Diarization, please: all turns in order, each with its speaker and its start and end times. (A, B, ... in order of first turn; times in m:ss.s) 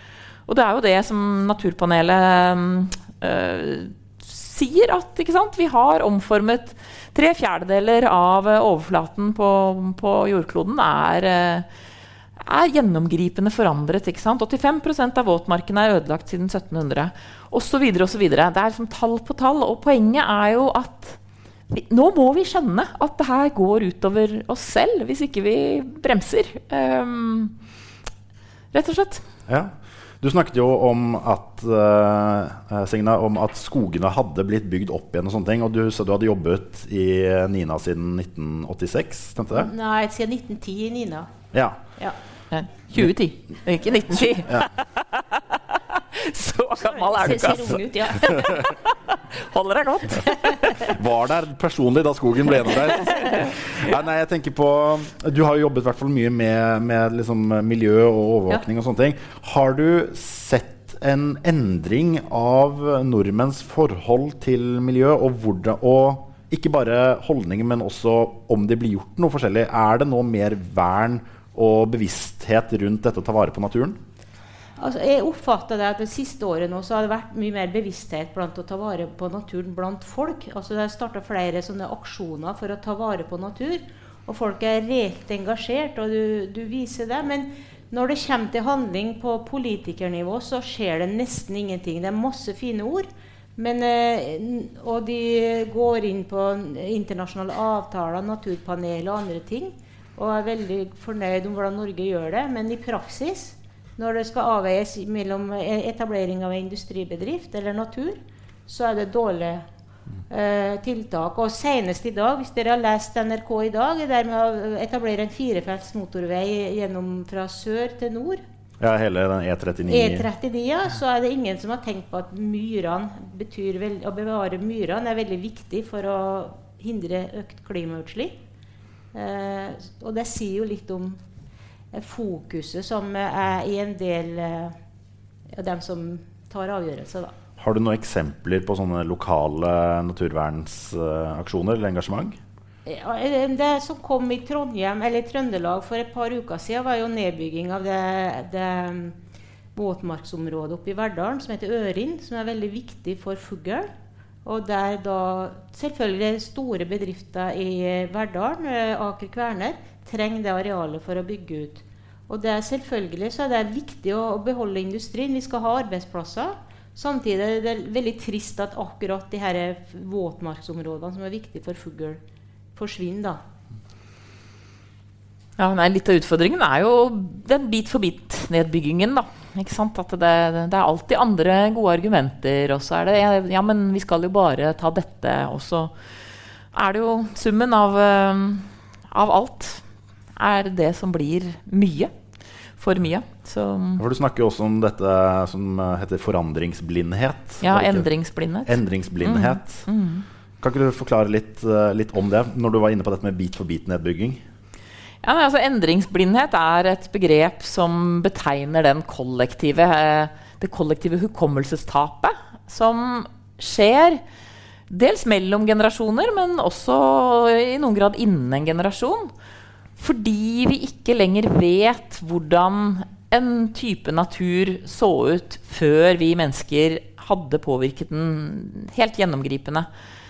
0:00.5-0:11.7 A
0:12.4-0:21.2 A
0:21.7-0:27.6 A
0:28.7-0:29.2 A
0:29.5-0:39.7 B
0:39.5-0:41.3 C
0:41.5-0:41.8 B
0:42.5-0:50.9 A
0:44.3-0:44.7 B
0:47.0-0:48.4 C
0:50.8-1:14.0 B
0:53.2-0:53.5 A
1:14.8-1:49.6 C
1:50.3-1:58.4 C
1:58.8-2:00.3 B
1:59.9-2:08.4 C
2:09.1-2:11.2 C
2:11.9-2:14.8 C
2:15.5-2:17.4 C
2:17.6-2:22.4 B
2:22.9-2:29.2 C
2:29.8-2:33.9 C
2:34.4-2:52.2 C
2:52.8-2:53.4 C
2:55.6-3:05.9 A
3:06.7-3:09.8 A
3:10.4-3:12.1 A
3:12.8-3:14.0 A
3:14.0-3:18.1 B
3:17.6-3:20.2 A
3:18.7-3:19.9 B
3:20.6-3:24.4 B
3:25.2-3:34.2 A
3:34.9-3:39.3 A
3:40.0-3:49.9 A